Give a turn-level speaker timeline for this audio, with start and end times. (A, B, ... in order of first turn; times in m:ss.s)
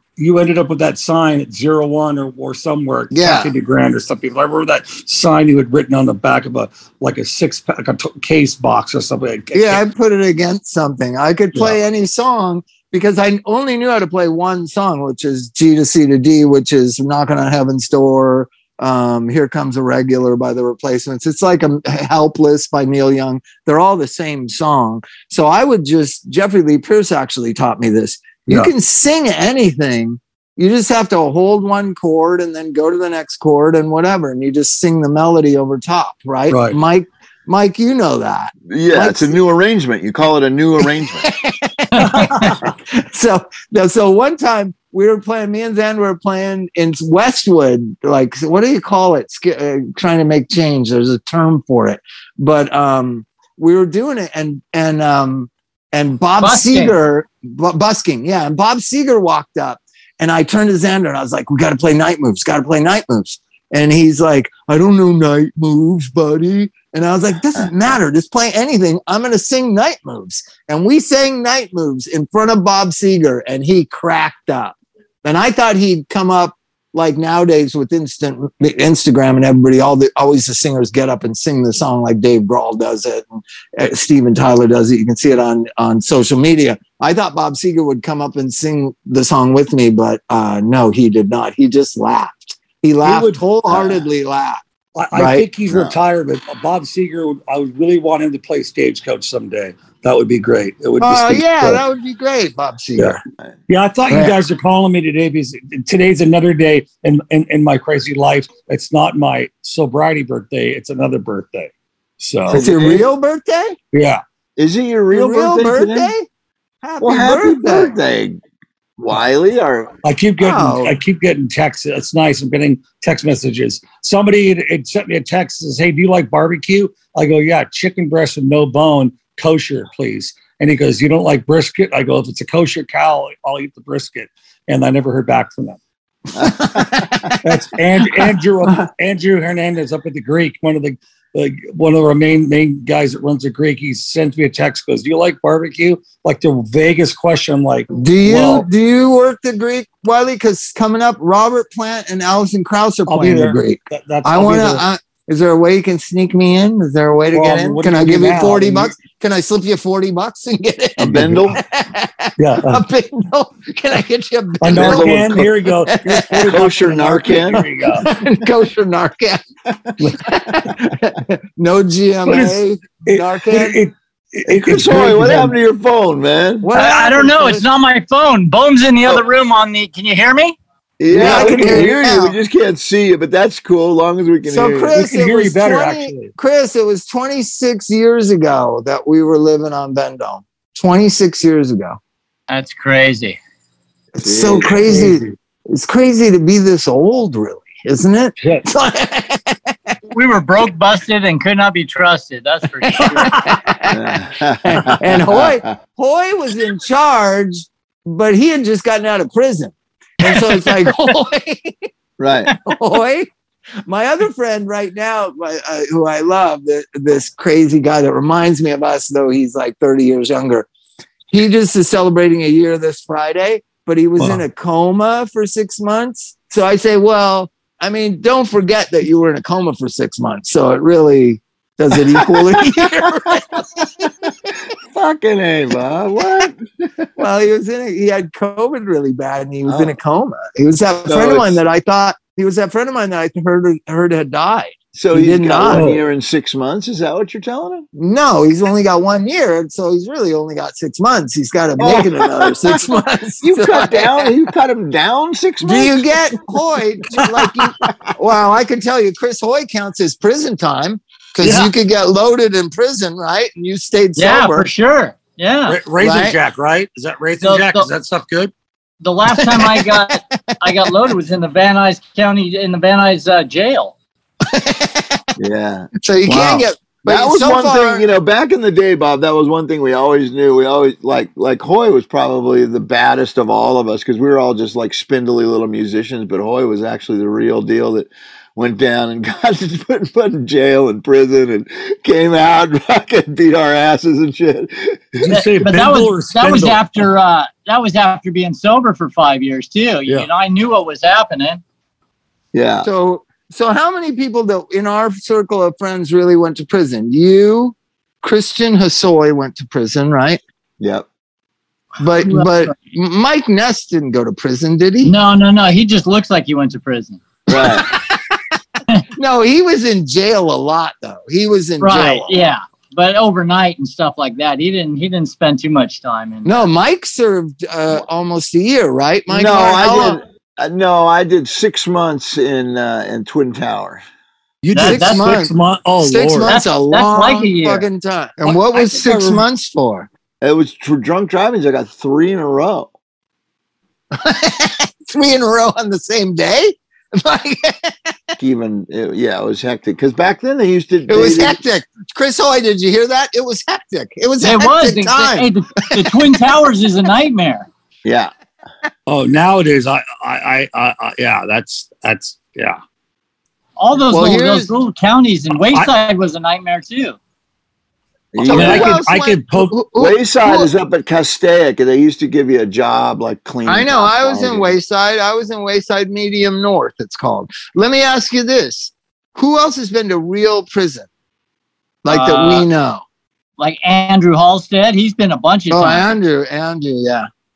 0:00.2-0:09.8 A
0:03.1-0:03.5 B
0:09.5-0:39.3 B
0:36.5-0:36.8 A
0:38.7-0:41.3 C
0:41.2-1:34.6 B
0:42.0-0:42.5 D
0:56.4-0:57.0 D
1:33.0-1:33.4 A
1:33.7-1:34.0 C
1:35.0-1:41.8 A
1:35.1-1:35.4 B
1:35.7-1:36.0 C
1:41.0-1:43.2 B
1:43.7-1:52.6 A
1:44.1-1:44.4 B
1:52.5-1:53.8 B
1:52.5-1:53.1 C
1:53.9-1:54.2 A
1:54.6-1:56.1 C
1:55.1-1:56.3 B
1:56.8-1:58.0 B
1:57.0-1:58.4 C
1:59.0-1:59.9 C
2:00.0-2:15.8 A
2:00.4-2:01.0 B
2:16.4-2:17.4 B
2:16.4-2:17.3 C
2:17.4-2:28.6 A
2:27.9-2:45.2 B
2:33.1-2:34.8 A
2:37.3-2:38.9 A
2:41.0-2:41.6 C
2:41.1-2:41.6 A
2:42.4-2:42.8 A
2:44.6-2:48.0 A
2:44.7-2:45.5 C
2:45.9-2:46.4 B
2:46.4-2:47.6 C
2:48.0-2:49.4 B
2:50.0-2:50.2 A
2:50.2-2:53.8 B
2:52.2-2:55.6 A
2:54.5-2:56.7 C
2:56.6-2:57.7 B
2:56.7-3:00.6 D
3:01.0-3:05.0 C
3:01.1-3:02.4 B
3:01.2-3:01.8 A
3:04.4-3:12.0 B
3:04.9-3:06.3 A
3:12.5-3:13.4 D
3:14.1-3:19.9 B
3:14.2-3:14.9 C
3:14.9-3:15.3 A
3:18.4-3:18.6 A
3:20.1-3:23.5 D
3:22.9-3:31.9 B
3:23.9-3:25.7 C
3:30.3-3:31.1 D
3:32.2-3:32.5 C
3:32.6-3:33.3 B
3:33.9-3:40.7 B
3:41.3-3:54.1 B
3:52.1-3:53.0 C
3:54.9-3:57.1 C
3:57.2-4:05.9 B
3:59.6-3:59.9 C
4:01.0-4:01.6 C
4:04.9-4:07.8 C
4:05.7-4:06.0 A
4:08.0-4:14.3 B
4:11.8-4:12.9 C
4:13.4-4:16.2 C
4:15.6-4:24.7 B
4:17.2-4:17.6 A
4:21.4-4:21.7 A
4:24.2-4:25.8 D
4:25.7-4:28.5 A
4:26.0-4:26.4 B
4:27.4-4:27.9 D
4:29.0-4:34.0 D
4:29.4-4:30.9 B
4:34.5-4:35.2 B
4:35.4-4:55.3 C
4:36.0-4:38.0 B
4:55.2-4:57.0 A
4:55.3-5:01.6 D
5:02.5-5:02.9 C
5:02.8-5:10.4 B
5:10.8-5:11.0 C
5:12.0-5:15.1 B
5:12.2-5:12.7 D
5:15.0-5:17.2 D
5:17.5-5:17.9 C
5:17.5-5:18.2 B
5:19.2-5:22.4 B
5:21.8-5:26.5 D
5:26.4-5:30.2 B
5:29.3-5:34.0 C
5:34.6-5:36.6 A
5:34.7-5:35.4 D
5:34.8-5:40.1 B
5:36.4-5:37.8 D
5:38.4-5:39.4 A
5:40.4-5:42.9 C
5:44.1-5:48.3 B
5:48.4-5:51.6 C
5:51.1-5:56.1 B
5:54.4-5:57.7 D
5:58.0-5:58.3 C
5:59.1-6:02.8 A
6:03.8-6:07.2 D
6:04.1-6:04.7 B
6:08.3-6:09.0 C
6:08.4-6:10.7 B
6:08.5-6:09.7 A
6:10.0-6:14.7 C
6:13.6-6:21.1 B
6:22.0-6:23.0 B
6:22.1-6:22.6 D
6:23.6-6:26.2 D
6:25.7-6:27.3 B